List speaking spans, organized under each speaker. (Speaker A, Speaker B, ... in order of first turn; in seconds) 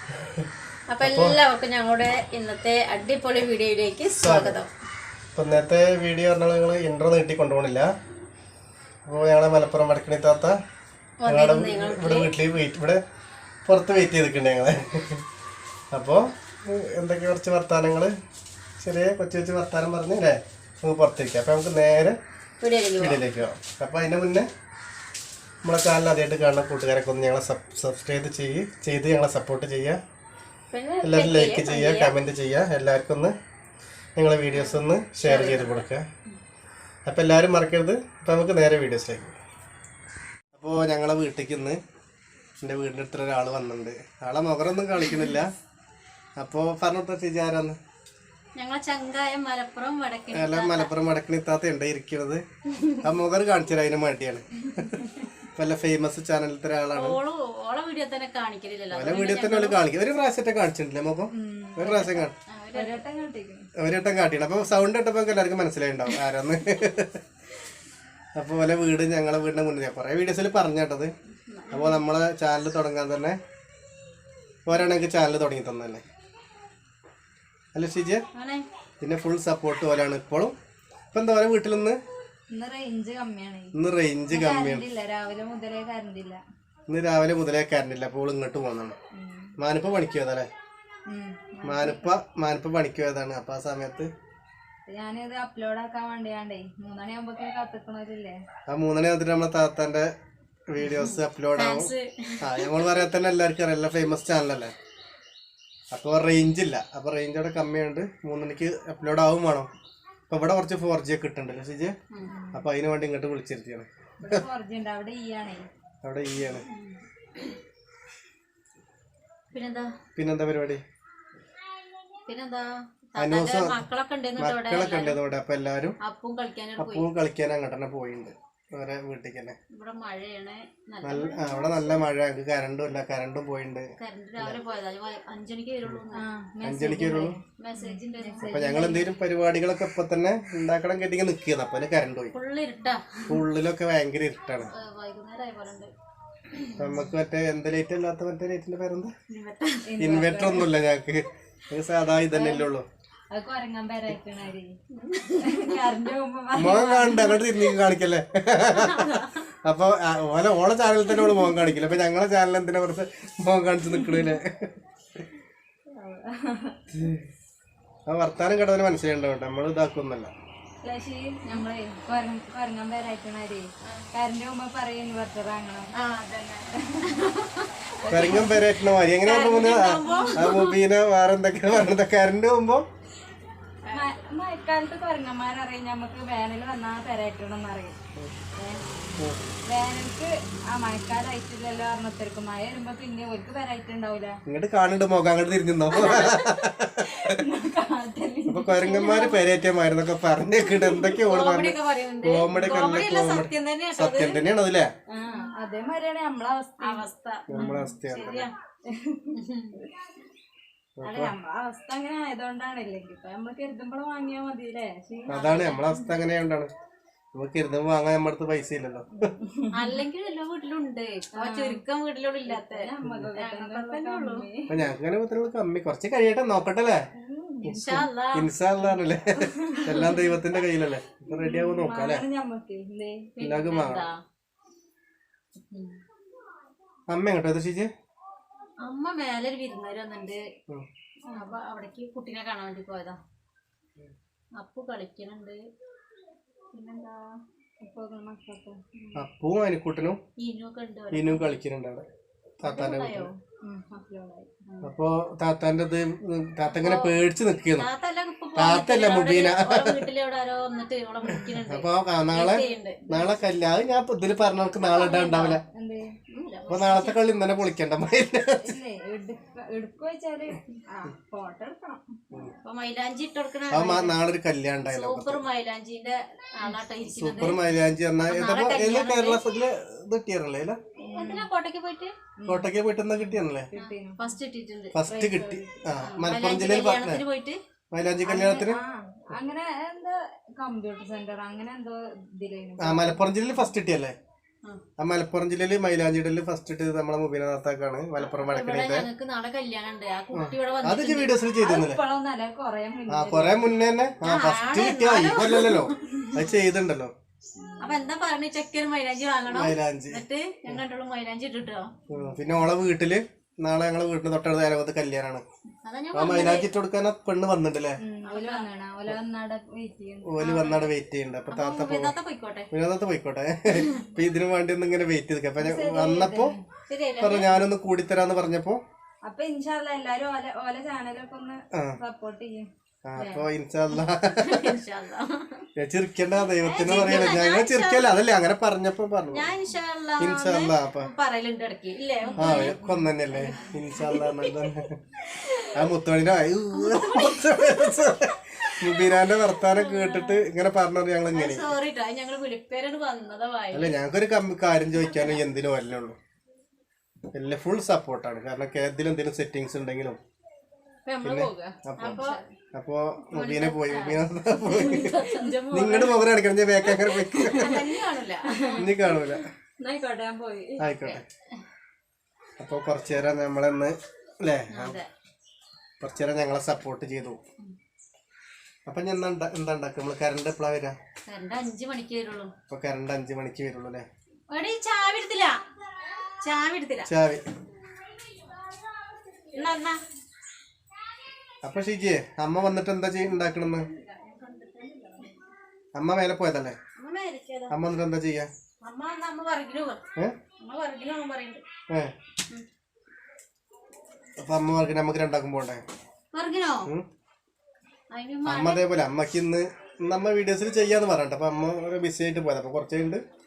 Speaker A: 0.2-0.5, 1.0-1.4, 4.2-4.6, 5.4-7.9, 9.1-10.6, 11.3-13.0, 13.7-15.2, 15.9-18.1, 18.8-22.2, 23.0-24.5, 25.6-30.0, 31.0-33.3, 34.1-36.1, 37.0-39.4, 40.5-41.8, 42.6-45.5, 46.4-47.8, 50.3-52.4, 53.0-57.2, 58.9-62.3, 63.8-67.2, 68.4-71.1, 71.7-73.4, 74.7-76.0, 77.7-78.2, 79.0-80.5, 81.1-82.0, 83.8-84.9, 86.9-89.0, 89.6-90.5, 91.6-94.1, 98.7-100.1, 100.7-104.7, 105.9-109.7, 110.3-112.0, 112.5-114.4, 116.0-116.7, 120.2-120.8, 123.2-123.8, 124.4-126.0, 126.8-129.6, 131.0-134.6, 136.6-137.3, 138.4-142.3, 143.3-144.7, 146.8-149.1, 150.0-152.9, 156.6-164.7, 166.9-167.2, 168.1-170.3, 178.1-182.9, 194.5-197.4, 198.5-204.9, 207.5-208.5, 211.0-211.3, 215.3-216.7, 217.3-219.1, 223.0-223.3, 224.7-227.0, 227.6-232.2, 233.4-234.1, 237.1-237.9, 249.2-250.2, 251.1-252.1, 252.6-253.3, 254.8-257.9, 258.6-260.1, 261.4-265.6, 266.7-268.7, 273.7-275.4, 277.2-280.8, 282.4-283.7, 284.9-287.2, 287.9-288.8, 292.8-294.2, 295.0-299.1, 300.3-302.0, 303.1-307.1, 309.5-310.8, 312.1-315.4, 316.1-318.0, 320.2-322.1, 322.7-326.6, 327.2-328.8, 331.7-332.0, 333.1-334.8, 335.8-339.5, 340.2-341.1, 342.4-345.0, 345.7-351.7, 353.7-356.2, 357.3-360.2, 361.2-362.2, 362.8-365.2, 365.7-367.8, 368.8-369.5, 370.8-371.2, 372.6-375.0, 376.0-377.4, 378.9-380.9, 382.7-384.1, 387.1-387.4, 391.6-393.9, 395.9-396.8, 397.7-398.5, 404.4-405.8, 408.4-413.2
Speaker B: 0.9-4.7, 11.2-12.3, 22.6-23.2, 30.7-32.1, 34.5-35.8, 48.5-50.9, 56.9-59.8, 61.8-63.0, 71.5-72.0, 78.3-78.7, 100.8-102.9, 116.5-117.4, 119.5-119.9, 122.3-125.2, 126.0-127.1, 129.7-132.0, 134.0-136.2, 137.6-139.0, 142.3-143.2, 144.7-145.9, 149.3-149.9, 154.9-156.1, 158.7-159.4, 175.9-178.6, 179.2-180.8, 196.0-196.5, 198.8-199.4, 201.2-204.4, 206.8-208.5, 209.4-209.8, 215.3-215.9, 219.7-224.5, 227.7-228.4, 229.9-230.4, 233.4-234.1, 235.7-236.0, 238.8-240.4, 241.3-243.2, 244.6-245.6, 246.7-247.2, 250.4-251.6, 252.6-253.3, 256.6-257.1, 257.8-263.1, 264.8-265.6, 266.3-267.2, 272.6-274.2, 274.9-277.6, 278.2-279.4, 281.1-282.1, 283.7-285.0, 286.0-287.6, 298.2-301.4, 304.2-306.1, 307.8-311.9, 315.9-316.7, 318.2-318.7, 320.4-320.9, 321.5-322.7, 323.7-324.0, 326.9-327.6, 333.2-335.6, 336.6-338.2, 339.3-342.8, 343.6-344.7, 345.2-345.9, 346.7-347.9, 348.7-350.5, 351.3-353.9, 355.0-355.4, 361.1-362.4, 363.3-366.2, 366.8-368.9, 371.0-371.2, 374.7-375.1, 381.3-382.5, 384.5-385.6, 386.4-387.1, 389.5-390.0, 396.9-397.7, 398.8-400.0, 400.6-401.6, 406.3-406.9, 408.1-408.8
Speaker C: 61.3-61.9, 62.7-63.7, 82.5-83.7, 84.3-86.4, 89.2-89.5, 91.1-92.1, 94.9-98.4, 112.3-112.7, 114.2-115.7, 136.1-139.1, 149.8-150.7, 152.3-152.7, 153.3-154.7, 155.4-157.8, 165.9-166.8, 170.8-175.9, 176.8-177.0, 178.0-178.6, 180.0-180.3, 183.9-188.0, 188.6-188.8, 189.7-194.4, 196.0-196.3, 197.0-199.3, 200.6-201.1, 205.1-207.9, 208.9-209.9, 211.0-215.4, 219.2-220.0, 221.4-221.8, 222.4-224.7, 227.2-227.8, 229.4-230.1, 231.3-233.3, 241.3-241.6, 247.8-248.8, 253.6-254.6, 265.7-266.1, 268.6-272.1, 281.0-281.5, 282.4-284.3, 285.1-285.9, 288.2-293.3, 301.6-303.7, 307.6-308.0, 312.1-312.4, 318.0-320.3, 325.6-326.6, 329.3-332.7, 342.2-343.8, 362.0-362.4, 364.9-365.4, 368.5-370.9, 393.9-395.2